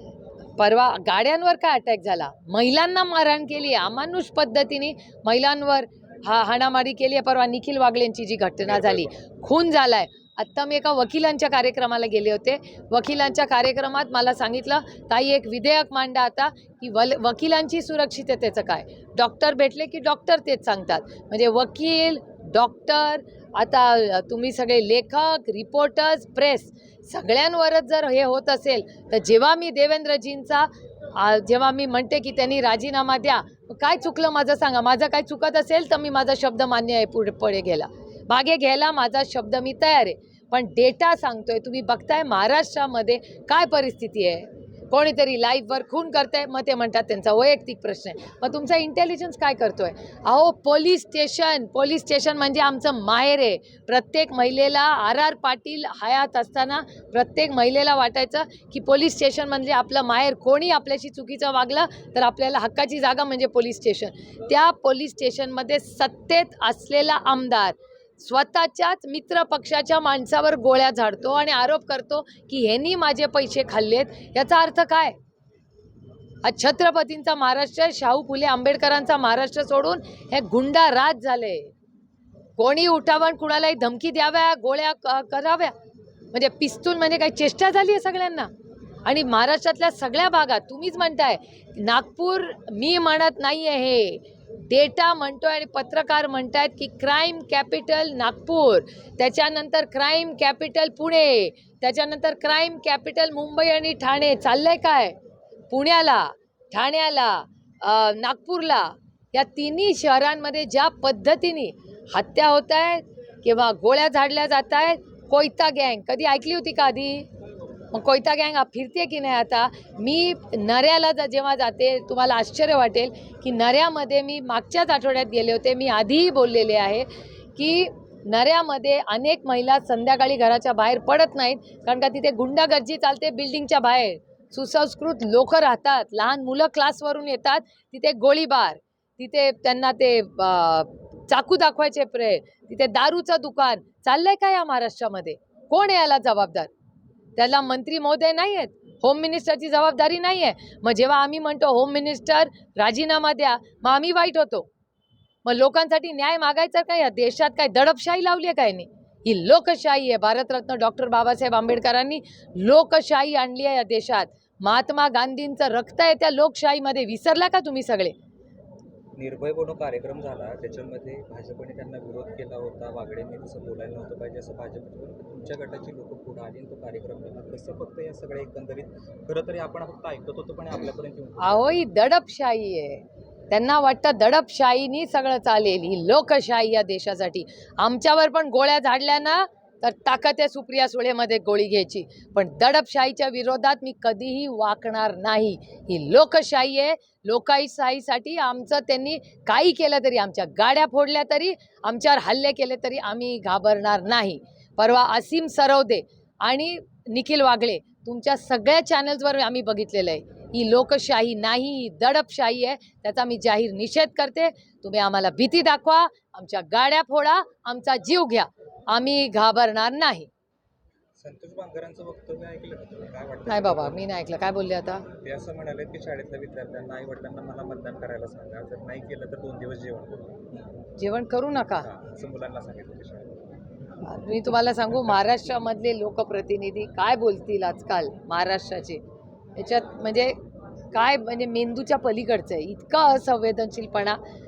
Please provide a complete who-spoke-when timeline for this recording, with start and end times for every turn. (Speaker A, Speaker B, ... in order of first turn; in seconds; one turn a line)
Speaker A: 0.6-75.1
Speaker B: 8.6-9.2
Speaker A: 76.4-81.7
Speaker A: 82.6-85.7
Speaker A: 86.3-88.5
Speaker A: 89.0-105.2
Speaker A: 105.7-117.3
Speaker A: 117.9-146.7
Speaker A: 147.4-154.7
Speaker A: 155.4-168.1
Speaker B: 169.2-181.8
Speaker A: 181.4-220.3
Speaker B: 221.2-224.1
Speaker A: 223.5-225.1
Speaker B: 225.2-230.7
Speaker A: 231.0-231.9
Speaker B: 231.7-233.4
Speaker A: 234.0-239.0
Speaker A: 239.6-240.4
Speaker A: 240.9-244.2